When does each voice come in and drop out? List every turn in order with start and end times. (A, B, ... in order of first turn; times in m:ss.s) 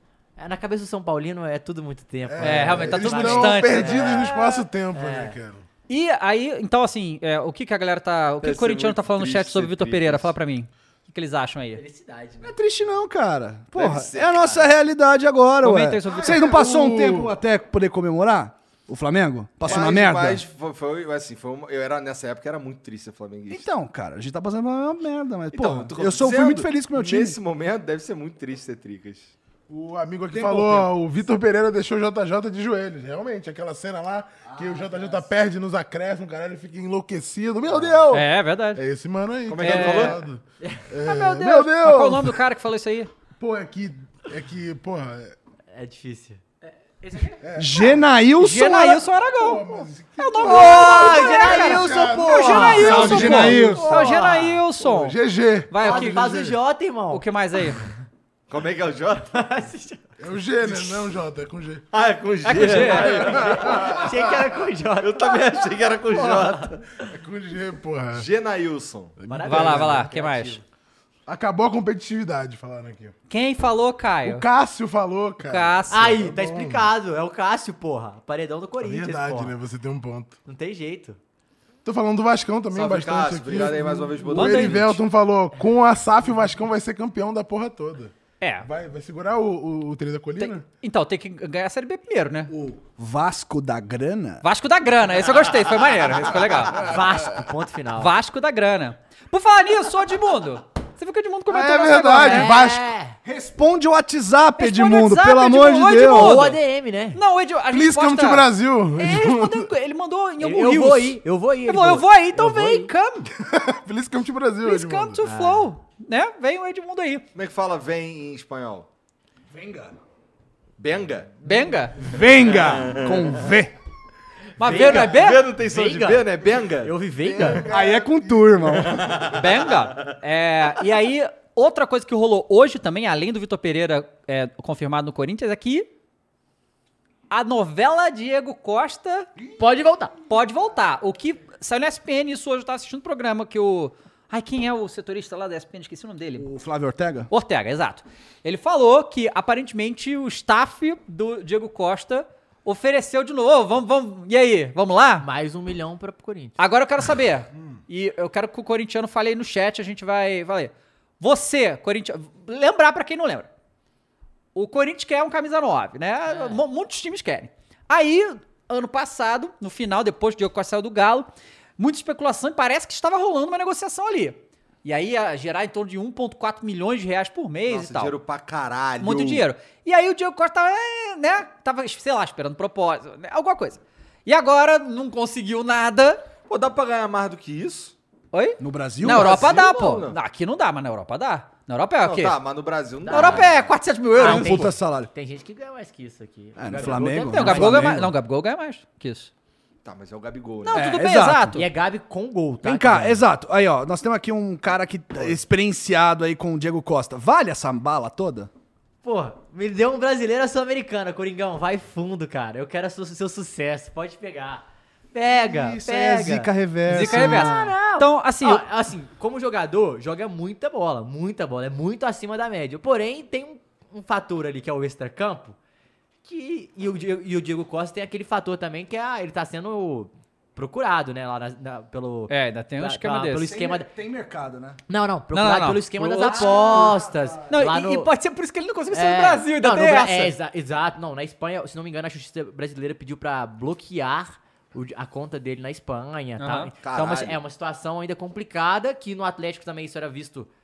0:00.4-0:04.3 A
0:02.3-0:05.6 B
0:02.4-0:04.7 C
0:04.9-0:05.4 A
0:05.9-0:11.8 C
0:08.4-0:10.3 D
0:11.8-0:12.6 A
0:12.4-0:20.4 E
0:13.8-0:14.7 D
0:15.6-0:16.5 C
0:16.1-0:17.3 B
0:19.6-0:23.7 D
0:23.5-0:27.4 E
0:25.5-0:29.3 D
0:29.7-0:42.4 B
0:30.3-0:30.9 E
0:34.5-0:35.2 E
0:38.1-0:38.8 C
0:39.5-0:40.2 D
0:39.6-0:40.2 C
0:41.0-0:43.1 C
0:43.4-0:45.4 B
0:45.7-0:46.4 A
0:47.1-0:47.4 C
0:47.4-0:48.0 B
0:47.6-0:49.0 E
0:48.4-0:55.2 C
0:49.2-0:54.0 B
0:50.4-0:54.6 A
0:52.8-0:53.9 E
0:54.8-0:56.6 B
0:55.7-0:56.3 C
0:55.8-0:57.2 A
0:57.1-0:57.8 C
0:58.5-0:59.3 D
0:59.3-1:00.1 A
1:00.2-1:01.8 B
1:01.9-1:04.0 D
1:02.4-1:03.3 C
1:02.6-1:06.8 A
1:03.0-1:04.3 B
1:05.0-1:06.8 D
1:07.1-1:08.3 B
1:08.1-1:09.2 D
1:09.2-1:10.0 B
1:09.3-1:10.6 A
1:09.5-1:10.6 C
1:11.3-1:13.1 B
1:13.3-1:14.4 C
1:14.2-1:16.9 B
1:15.4-1:16.2 C
1:15.9-1:19.6 A
1:18.8-1:20.4 B
1:20.4-1:21.2 A
1:21.8-1:30.6 B
1:22.7-1:24.9 D
1:24.3-1:25.0 C
1:28.4-1:28.7 C
1:30.4-1:32.5 C
1:32.7-1:34.4 E
1:34.4-1:36.9 C
1:36.8-1:38.1 A
1:38.0-1:42.5 C
1:41.5-1:42.9 B
1:42.2-1:43.2 A
1:43.2-1:46.6 E
1:44.6-1:46.6 C
1:46.1-1:47.2 A
1:47.1-1:53.3 C
1:47.7-1:49.7 B
1:50.4-1:52.9 A
1:53.4-1:55.2 B
1:54.6-1:57.3 C
1:55.2-1:55.7 A
1:57.4-1:58.9 D
1:59.5-1:59.9 E
2:00.8-2:01.3 D
2:01.4-2:02.0 C
2:02.0-2:03.7 E
2:02.4-2:03.4 D
2:04.6-2:05.5 C
2:04.6-2:07.7 A
2:04.6-2:06.9 D
2:07.2-2:08.9 B
2:07.7-2:09.4 E
2:08.8-2:10.1 D
2:09.4-2:15.9 C
2:17.3-2:19.3 C
2:19.6-2:20.1 A
2:20.3-2:26.5 C
2:26.4-2:27.3 E
2:27.3-2:35.3 C
2:35.2-2:36.6 A
2:36.6-2:43.5 C
2:44.6-2:58.2 C
2:46.3-2:46.6 A
2:57.7-2:59.5 D
2:59.0-3:06.2 C
3:06.5-3:08.0 D
3:08.3-3:12.4 C
3:08.6-3:09.6 E
3:09.0-3:10.2 D
3:12.0-3:13.7 D
3:13.0-3:13.5 A
3:13.1-3:14.7 C
3:14.2-3:18.1 A
3:14.2-3:15.1 E
3:16.6-3:18.1 E
3:17.3-3:19.3 C
3:19.8-3:20.8 D
3:20.6-3:21.6 C
3:20.7-3:21.6 E
3:21.5-3:23.2 A
3:22.6-3:28.5 E
3:29.0-3:45.6 A
3:35.3-3:37.7 E
3:36.9-3:38.6 C
3:46.2-3:53.9 A
3:52.3-3:53.5 C
3:53.4-3:54.8 E
3:54.9-3:58.1 A
3:55.3-3:56.8 C
3:56.0-3:57.4 E
3:57.5-4:00.3 C
3:58.9-4:10.5 A
4:06.4-4:06.7 C
4:06.8-4:07.4 D